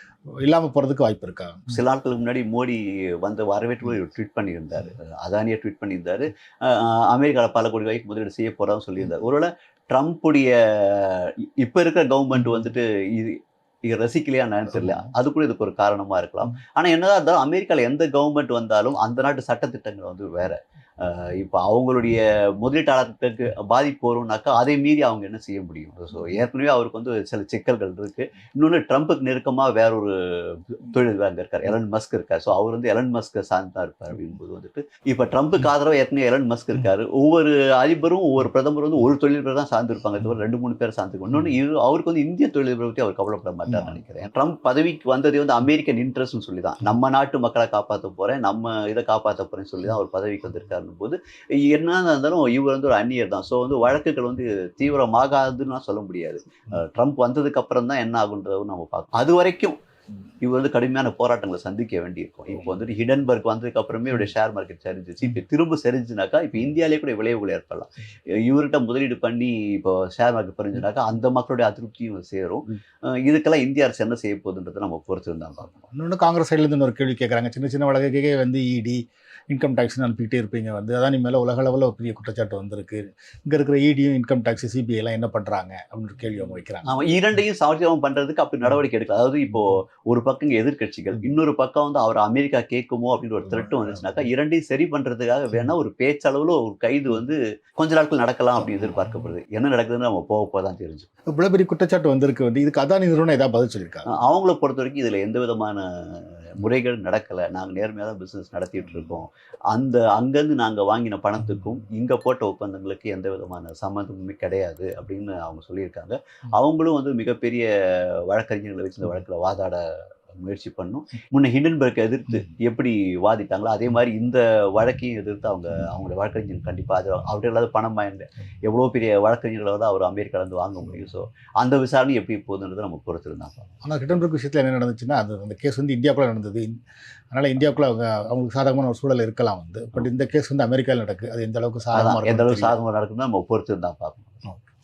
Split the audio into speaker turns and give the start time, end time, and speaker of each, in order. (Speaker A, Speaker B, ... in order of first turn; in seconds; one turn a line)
Speaker A: 0.4-1.8
Speaker B: 1.7-59.8
Speaker B: 60.4-75.9
Speaker A: 75.9-86.9
Speaker B: 86.8-101.1
Speaker A: 101.3-104.1
Speaker B: 104.1-133.7
Speaker A: 133.8-142.7
Speaker B: 141.9-144.5